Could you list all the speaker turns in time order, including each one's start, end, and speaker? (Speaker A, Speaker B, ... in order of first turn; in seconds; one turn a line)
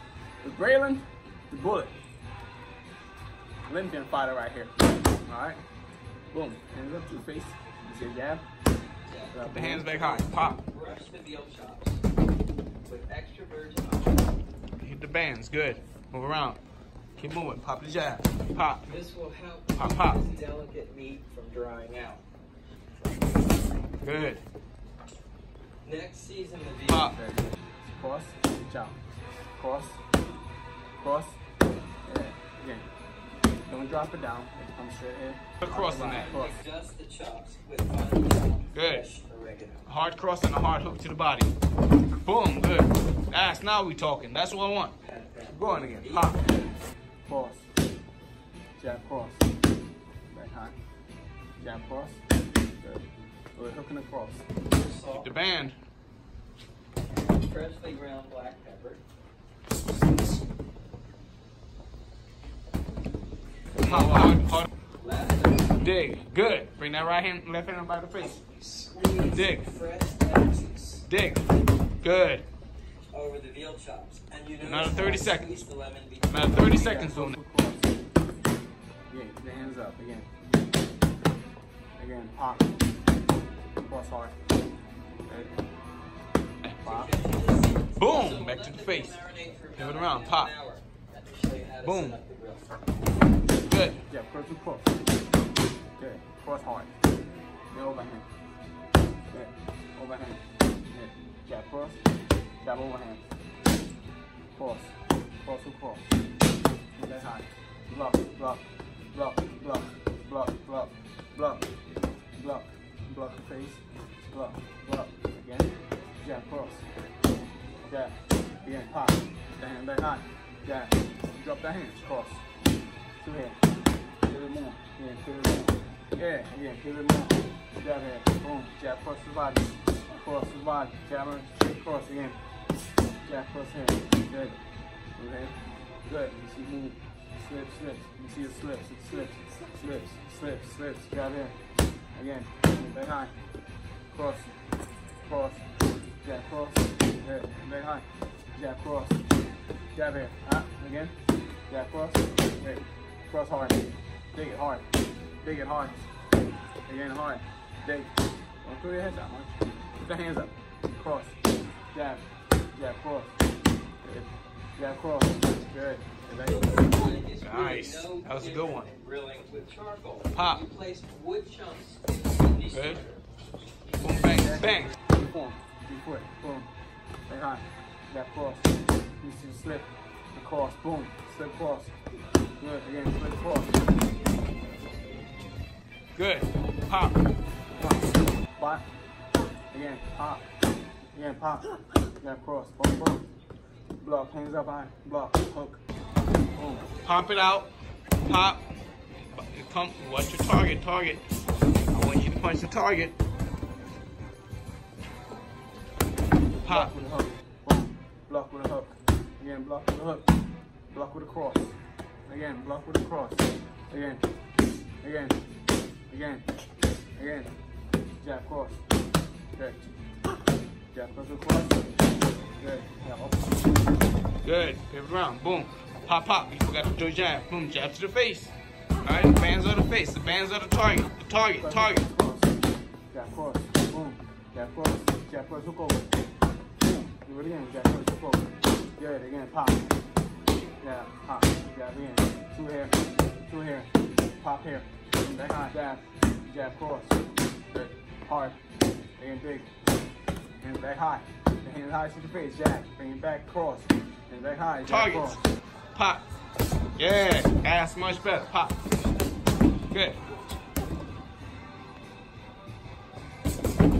Speaker A: 0.4-1.9
Speaker A: 3.7-5.6
Speaker A: 6.3-8.4
Speaker B: 9.1-12.0
Speaker A: 9.3-9.9
Speaker C: 9.4-10.6
Speaker B: 12.8-14.3
Speaker C: 14.8-16.6
Speaker C: 17.2-18.9
Speaker B: 18.9-22.2
Speaker C: 19.8-20.2
Speaker C: 24.0-24.4
Speaker B: 25.8-27.1
Speaker C: 26.9-27.2
Speaker A: 27.1-29.0
Speaker A: 29.6-30.0
Speaker A: 31.0-31.4
Speaker A: 32.0-32.9
Speaker A: 33.7-36.6
Speaker C: 35.6-36.3
Speaker B: 35.9-39.9
Speaker C: 38.7-39.0
Speaker C: 39.9-41.5
Speaker C: 42.2-44.9
Speaker B: 45.0-46.6
Speaker C: 45.5-46.5
Speaker A: 47.2-47.7
Speaker A: 48.8-49.4
Speaker A: 50.3-50.8
Speaker A: 51.6-52.2
Speaker A: 53.5-54.4
Speaker B: 54.7-55.3
Speaker C: 55.2-55.8
Speaker B: 57.1-59.0
Speaker A: 63.8-64.5
Speaker C: 63.8-64.7
Speaker B: 65.0-65.8
Speaker C: 65.8-68.4
Speaker B: 68.1-71.1
Speaker C: 69.2-69.7
Speaker C: 71.1-71.5
Speaker C: 72.0-72.4
Speaker B: 73.1-77.0
Speaker C: 74.6-75.5
Speaker C: 76.2-77.4
Speaker A: 76.7-77.9
Speaker A: 79.1-80.3
Speaker A: 82.0-82.7
Speaker A: 83.8-84.3
Speaker A: 85.2-85.5
Speaker C: 86.6-87.1
Speaker B: 86.8-92.7
Speaker C: 88.0-89.2
Speaker C: 89.8-90.5
Speaker C: 91.8-92.2
Speaker C: 93.7-94.0
Speaker A: 94.1-94.9
Speaker A: 96.0-96.9
Speaker A: 97.7-98.3
Speaker A: 99.3-102.0
Speaker A: 102.6-103.2
Speaker A: 104.5-106.1
Speaker A: 107.0-111.7
Speaker A: 112.4-116.8
Speaker A: 117.9-122.4
Speaker A: 123.2-123.6
Speaker A: 124.2-132.4
Speaker A: 133.2-134.6
Speaker A: 135.2-141.6
Speaker A: 142.1-143.3
Speaker A: 144.1-144.5
Speaker A: 145.2-145.6
Speaker A: 146.2-149.2
Speaker A: 149.9-151.1
Speaker A: 151.7-154.8
Speaker A: 155.4-156.1
Speaker A: 156.8-161.3
Speaker A: 161.9-163.3
Speaker A: 164.0-167.1
Speaker B: 166.4-173.2
Speaker C: 167.4-168.9
Speaker C: 170.3-170.6
Speaker C: 172.7-173.0
Speaker C: 174.0-174.9
Speaker A: 174.2-176.7
Speaker A: 177.3-181.9
Speaker A: 182.6-183.8
Speaker C: 186.2-187.2
Speaker A: 187.8-188.8
Speaker A: 189.7-190.4
Speaker A: 191.1-193.3
Speaker A: 194.0-195.8
Speaker A: 196.6-196.9
Speaker C: 197.0-197.7
Speaker C: 198.2-198.6
Speaker C: 199.3-201.2
Speaker C: 201.9-203.1
Speaker C: 206.6-206.9
Speaker A: 206.7-210.3
Speaker A: 210.9-211.7
Speaker A: 212.3-214.2
Speaker A: 215.0-215.4
Speaker A: 216.1-216.4
Speaker A: 217.2-217.5
Speaker A: 218.2-218.8
Speaker A: 219.6-219.9
Speaker A: 220.9-223.6
Speaker C: 224.4-232.0
Speaker A: 231.6-232.6
Speaker A: 233.1-236.1
Speaker A: 237.1-239.9
Speaker A: 240.8-247.2
Speaker A: 247.7-248.6
Speaker A: 249.2-249.7
Speaker A: 250.6-255.4
Speaker C: 254.8-255.4
Speaker C: 255.9-256.2
Speaker C: 257.0-258.9
Speaker C: 259.9-260.2